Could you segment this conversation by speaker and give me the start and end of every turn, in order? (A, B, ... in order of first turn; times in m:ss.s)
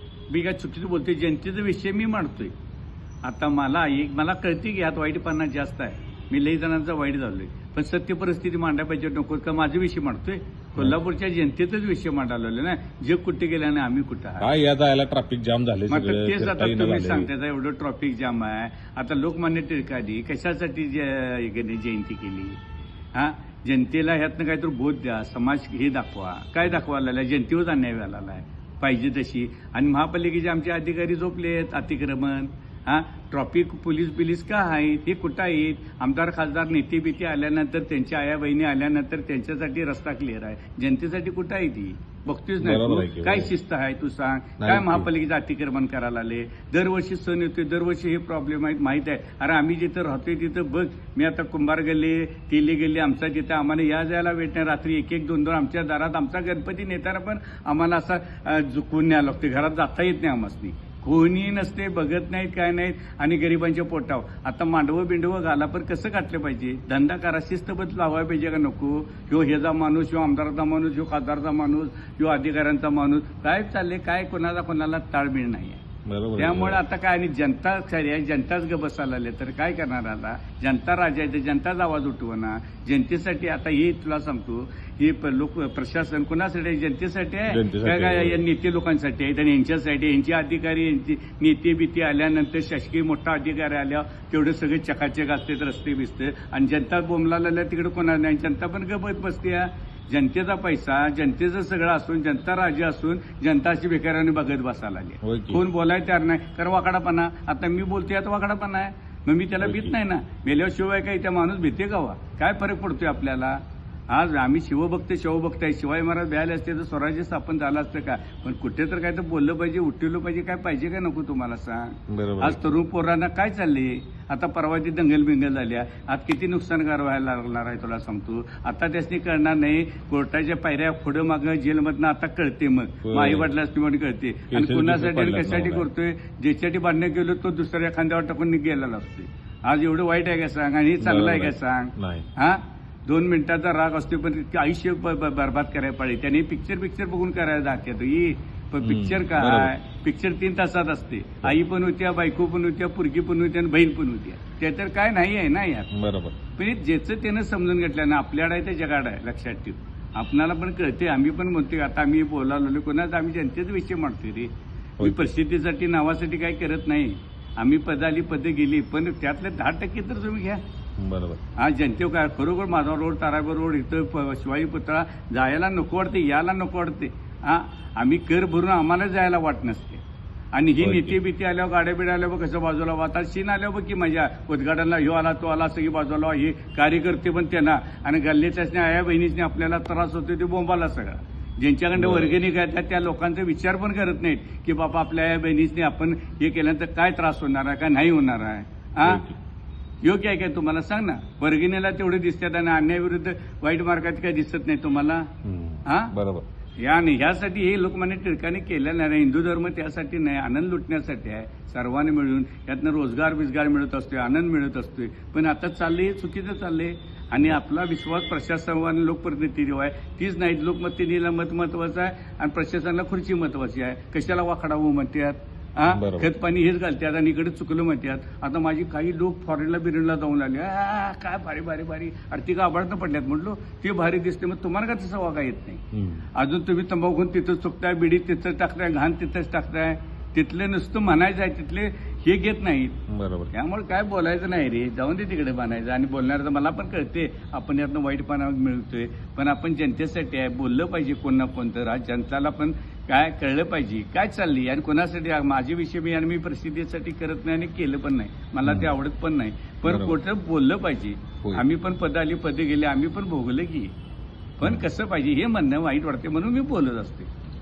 0:00.3-0:02.5 A
0:03.2-0:14.5 A
0:14.4-0:17.3 B
0:15.9-0:22.6 A
0:23.2-1:15.8 A
0:42.6-0:43.5 B
0:44.6-0:45.1 B
1:16.0-1:16.8 B
1:16.4-1:53.6 A
1:27.5-1:28.4 B
1:45.2-1:45.6 B
1:49.6-1:49.9 B
1:54.1-2:35.9 A
2:02.1-2:02.6 B
2:13.0-2:13.5 B
2:14.5-2:15.9 B
2:21.0-2:22.3 B
2:28.8-2:29.7 B
2:35.9-2:36.4 B
2:36.6-2:50.6 A
2:45.0-2:45.3 B
2:51.0-2:51.4 B
2:51.6-3:00.0 A
3:00.5-3:19.2 A
3:00.8-3:01.2 B
3:12.0-3:12.4 B
3:19.0-3:19.4 B
3:20.0-3:25.3 A
3:25.4-3:26.4 B
3:25.9-3:26.1 A
3:26.8-3:55.8 A
3:45.9-3:46.3 B
3:55.9-3:56.3 B
3:56.4-4:03.0 A
4:03.1-4:03.5 B
4:03.5-4:23.9 A
4:18.6-4:18.9 B
4:19.8-4:20.2 B
4:24.6-4:27.3 A